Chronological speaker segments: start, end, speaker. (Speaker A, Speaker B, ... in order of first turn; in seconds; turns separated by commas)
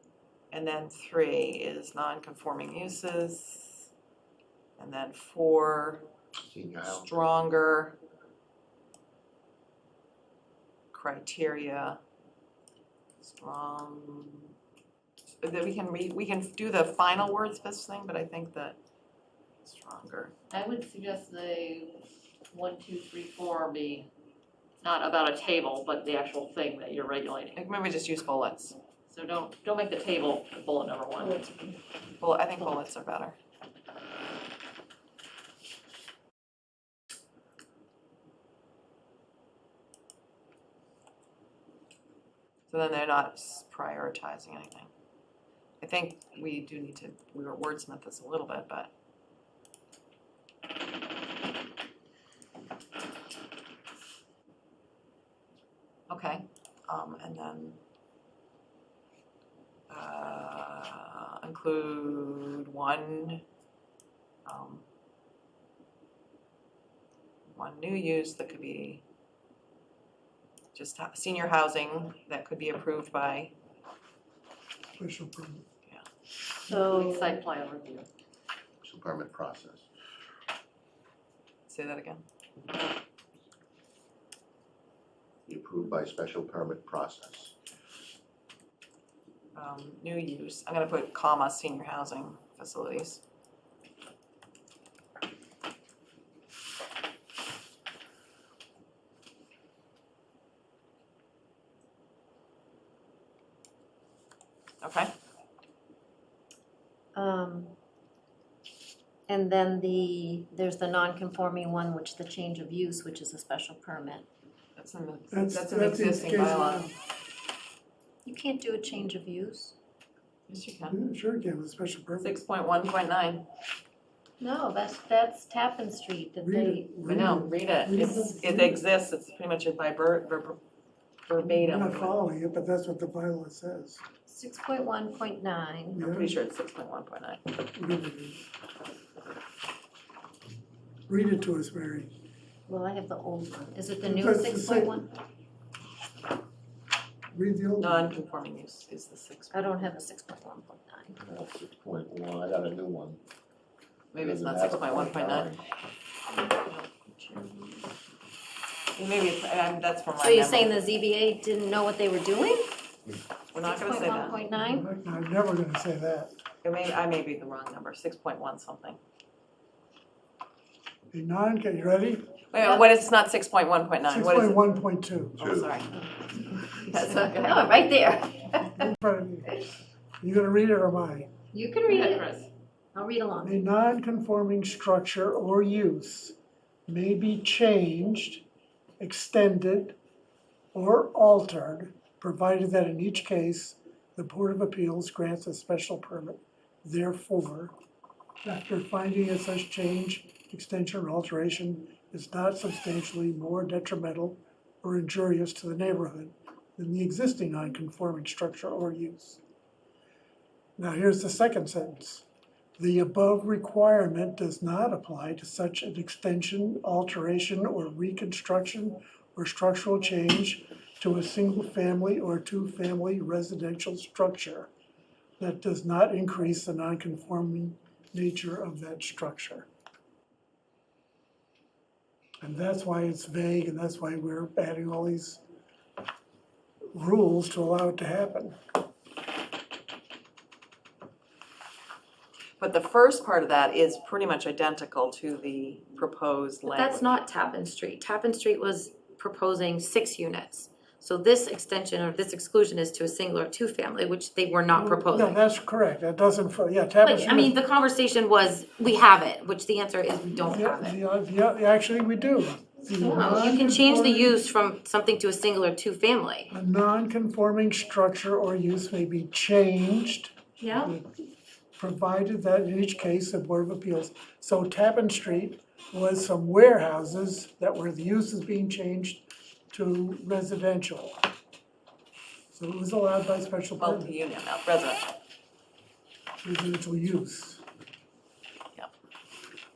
Speaker A: 0.5-3.9, Speaker A: 4.8-6.0, Speaker B: 6.5-7.1, Speaker A: 6.8-8.0, Speaker A: 10.9-12.0, Speaker A: 13.2-14.5, Speaker A: 15.4-18.8, Speaker A: 19.6-20.3, Speaker C: 20.5-22.0, Speaker C: 22.5-24.1, Speaker C: 24.8-27.6, Speaker A: 27.6-28.8, Speaker C: 29.1-31.4, Speaker D: 31.2-31.8, Speaker A: 32.2-33.4, Speaker A: 42.7-44.9, Speaker A: 45.8-48.9, Speaker A: 56.1-57.8, Speaker A: 59.9-63.4, Speaker A: 64.5-64.8, Speaker A: 67.5-69.0, Speaker A: 70.7-73.5, Speaker E: 75.0-75.6, Speaker D: 76.7-77.5, Speaker C: 76.7-78.1, Speaker B: 78.8-79.9, Speaker A: 81.7-82.2, Speaker B: 85.5-87.5, Speaker A: 89.5-93.2, Speaker A: 104.8-105.1, Speaker D: 107.2-107.7, Speaker D: 109.3-114.3, Speaker A: 114.8-116.9, Speaker E: 115.3-117.0, Speaker D: 118.2-119.8, Speaker A: 120.5-121.0, Speaker E: 120.9-122.4, Speaker A: 122.2-123.4, Speaker D: 124.4-126.9, Speaker E: 126.4-128.8, Speaker A: 127.0-130.6, Speaker A: 131.3-132.2, Speaker E: 131.4-134.0, Speaker D: 134.3-136.0, Speaker E: 135.9-136.4, Speaker A: 136.0-137.4, Speaker E: 137.7-138.4, Speaker E: 141.1-142.1, Speaker D: 142.7-145.1, Speaker E: 144.0-145.0, Speaker E: 147.3-148.1, Speaker A: 147.8-149.9, Speaker D: 149.5-151.2, Speaker B: 151.2-153.2, Speaker A: 154.1-155.5, Speaker B: 154.2-155.6, Speaker A: 156.6-157.9, Speaker A: 158.9-160.8, Speaker D: 160.2-162.9, Speaker A: 163.5-164.5, Speaker D: 163.6-164.9, Speaker E: 164.6-166.3, Speaker A: 166.6-169.0, Speaker E: 171.1-172.2, Speaker A: 172.5-174.8, Speaker D: 172.6-172.9, Speaker E: 174.0-175.5, Speaker A: 175.4-176.1, Speaker B: 175.4-175.7, Speaker A: 176.6-177.9, Speaker D: 177.1-178.9, Speaker E: 178.8-179.6, Speaker E: 180.2-181.3, Speaker D: 181.5-182.3, Speaker C: 181.9-182.5, Speaker D: 182.9-183.6, Speaker E: 183.4-186.4, Speaker E: 186.9-188.4, Speaker E: 189.0-190.0, Speaker E: 190.7-197.7, Speaker E: 198.4-209.4, Speaker E: 210.8-212.2, Speaker E: 212.8-224.7, Speaker E: 225.4-229.7, Speaker E: 232.4-235.4, Speaker E: 236.9-238.6, Speaker A: 242.6-247.1, Speaker D: 246.7-255.3, Speaker E: 254.7-257.6, Speaker D: 257.0-261.0, Speaker E: 260.4-264.4, Speaker D: 262.9-266.5, Speaker E: 266.5-271.1, Speaker D: 270.6-270.9, Speaker E: 271.8-281.2, Speaker E: 282.5-284.1, Speaker A: 283.8-285.1, Speaker E: 286.4-287.6